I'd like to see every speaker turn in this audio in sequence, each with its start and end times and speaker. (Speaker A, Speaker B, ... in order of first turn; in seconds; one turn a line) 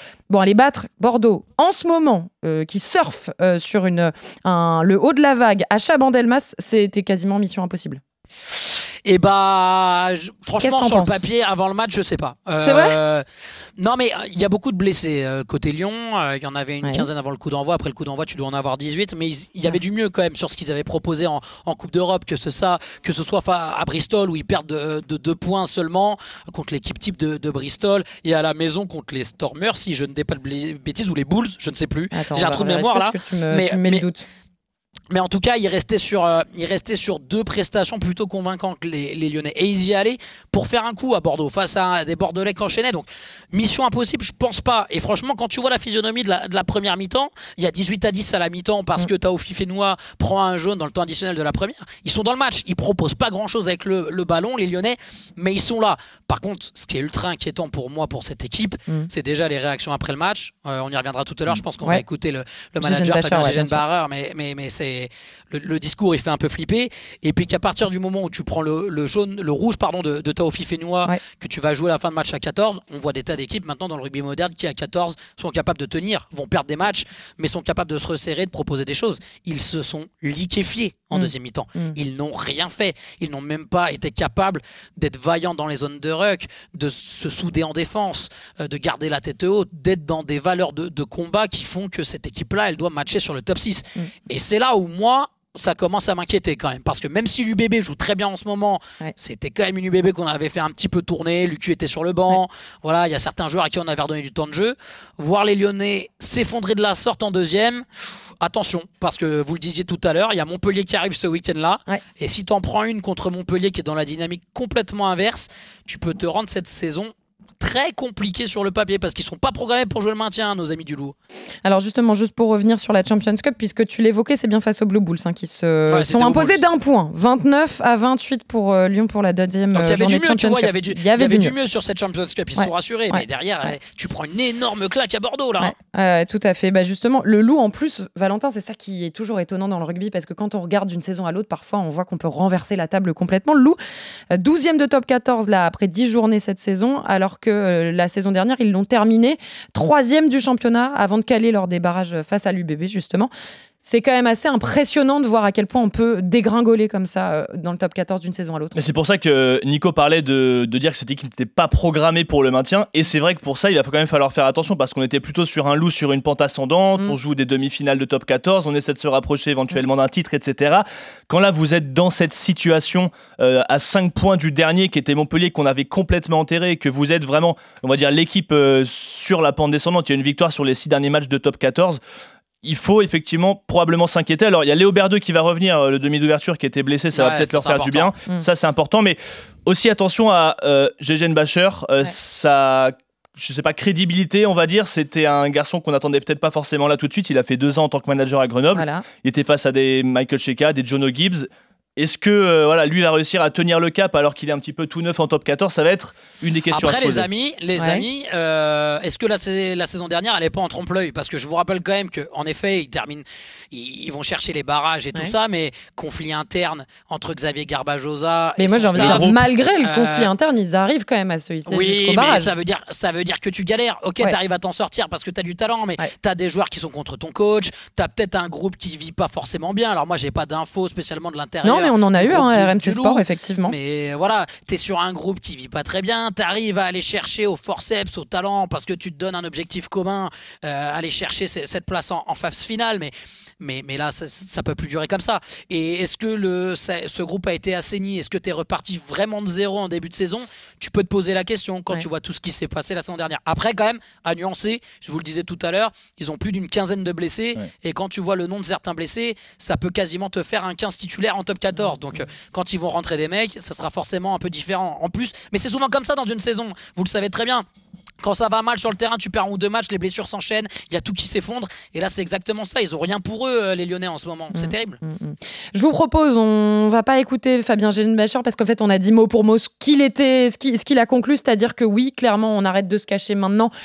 Speaker A: 0.3-8.0
Speaker B: 8.6-13.2
Speaker A: 10.6-11.2
Speaker A: 12.6-13.0
Speaker B: 13.8-34.0
Speaker A: 32.1-34.2
Speaker B: 35.1-107.8
Speaker A: 62.8-63.8
Speaker A: 81.1-82.0
Speaker B: 108.4-121.2
Speaker A: 121.7-131.5
Speaker B: 125.9-126.6
Speaker B: 129.7-135.7
Speaker A: 132.6-133.7
Speaker A: 135.6-143.8
Speaker A: 144.3-153.3
Speaker A: 153.8-158.8
Speaker C: 158.8-182.0
Speaker C: 182.6-207.3
Speaker B: 187.1-188.1
Speaker A: 198.7-199.1
Speaker B: 206.7-220.3
Speaker A: 207.8-208.0
Speaker A: 218.6-222.5
Speaker C: 218.9-219.4
Speaker B: 221.7-267.6
Speaker A: 231.6-233.8
Speaker A: 261.8-262.2
Speaker B: 268.2-275.0
Speaker A: 274.5-283.7